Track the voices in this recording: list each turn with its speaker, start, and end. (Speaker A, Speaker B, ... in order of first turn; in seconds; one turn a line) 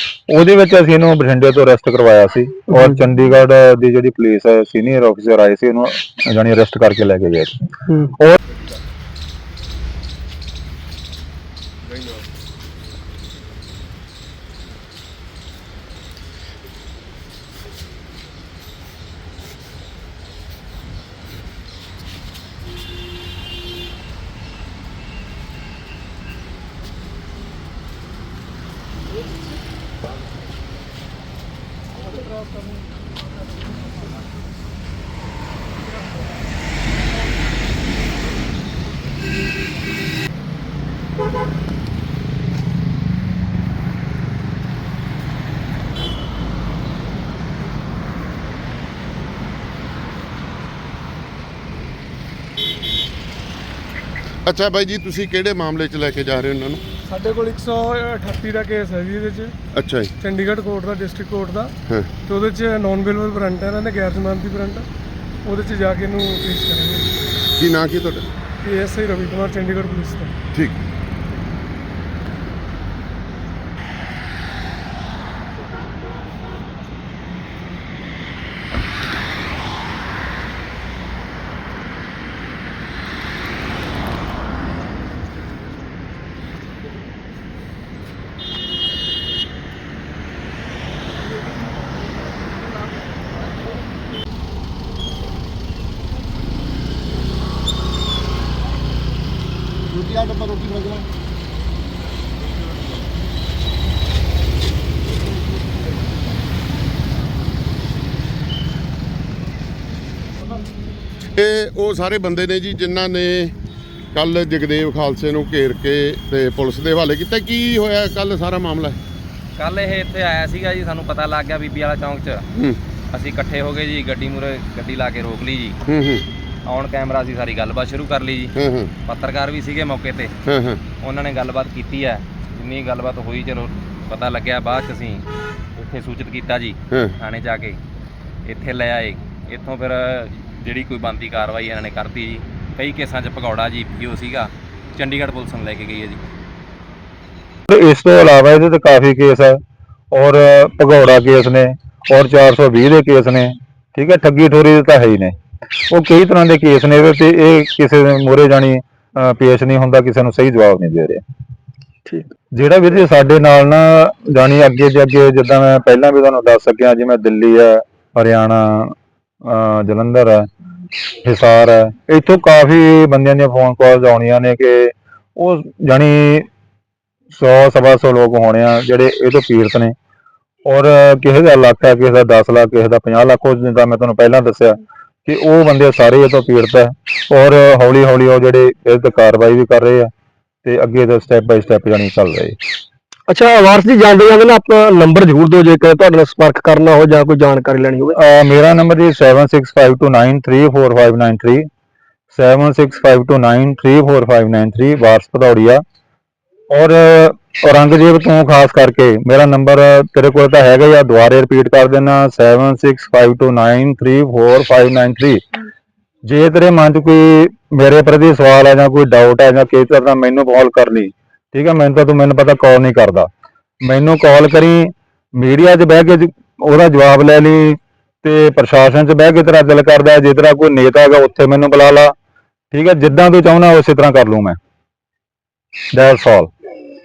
Speaker A: 0.3-7.7
Speaker B: 54.5-56.8
Speaker C: 57.1-59.5
Speaker B: 59.7-60.1
Speaker C: 60.2-64.8
Speaker C: 65.5-67.1
Speaker B: 67.6-68.2
Speaker C: 68.6-70.4
Speaker B: 111.4-113.5
Speaker B: 114.1-119.0
Speaker D: 119.6-122.4
Speaker B: 122.5-122.8
Speaker D: 123.1-125.8
Speaker B: 125.9-126.3
Speaker D: 126.7-128.5
Speaker B: 128.6-128.9
Speaker D: 129.1-130.3
Speaker B: 130.5-130.8
Speaker D: 131.0-135.2
Speaker D: 135.8-137.8
Speaker D: 138.5-146.2
Speaker A: 147.7-149.6
Speaker A: 150.1-155.3
Speaker A: 155.9-161.2
Speaker A: 162.5-170.5
Speaker A: 171.1-176.5
Speaker A: 177.3-179.9
Speaker A: 180.7-190.1
Speaker A: 190.7-192.6
Speaker E: 193.3-198.2
Speaker A: 198.2-201.7
Speaker A: 202.3-205.8
Speaker A: 206.7-215.4
Speaker A: 216.3-223.3
Speaker A: 223.8-232.1
Speaker A: 232.7-234.6
Speaker A: 235.9-236.5